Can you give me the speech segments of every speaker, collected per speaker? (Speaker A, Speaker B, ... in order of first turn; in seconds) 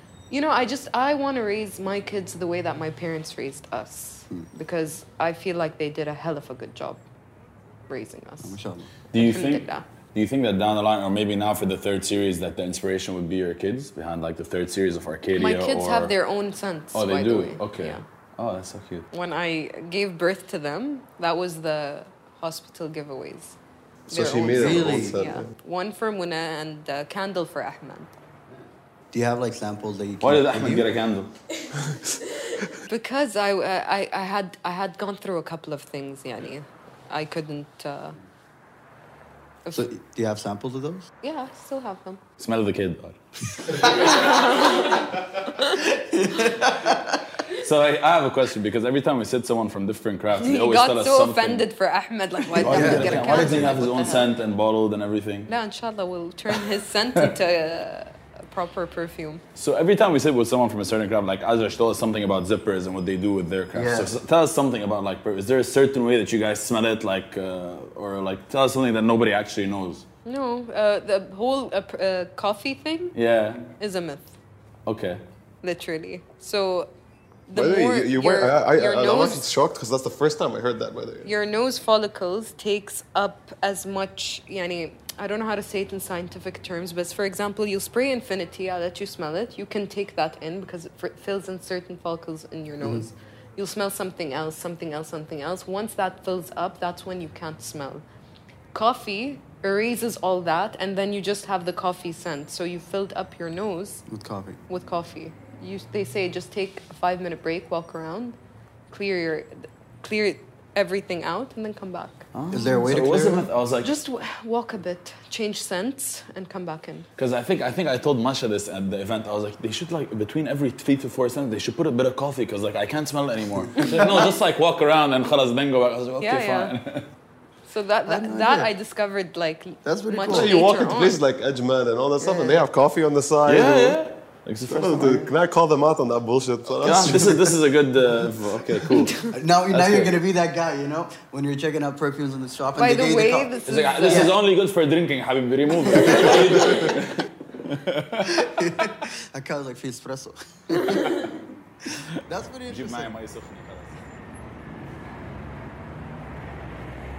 Speaker A: 0.3-7.0, 7.9-8.6, 9.1-9.9, 15.4-18.0, 19.1-23.6, 24.1-28.1, 32.9-38.2, 41.2-42.2, 43.8-45.8, 50.4-54.3, 55.5-59.4, 70.2-73.1, 73.8-74.4, 75.6-76.9, 77.5-79.4, 81.2-98.0, 98.7-104.0, 104.7-108.4, 108.9-112.3, 113.8-117.1, 126.2-126.8, 127.7-131.2, 132.2-132.6, 139.0-139.3, 142.8-144.3
Speaker B: 8.4-8.9, 24.2-25.3, 29.1-30.9, 39.7-41.1, 45.6-47.2, 52.5-53.8, 63.7-64.1, 104.1-104.6, 112.5-113.5, 123.8-124.2, 128.1-128.7, 129.8-130.5, 139.3-144.3, 145.9-146.9, 148.2-153.1
Speaker C: 9.1-16.1, 16.9-19.1, 30.2-31.3, 42.4-43.2, 47.5-51.6, 52.5-55.5, 59.5-70.0, 73.1-73.7, 74.9-75.2, 112.3-113.9, 117.2-127.1, 133.4-135.2, 136.8-140.2, 143.7-148.4, 152.7-154.0
Speaker D: 24.1-25.5, 77.5-81.3, 130.3-134.0, 134.7-137.6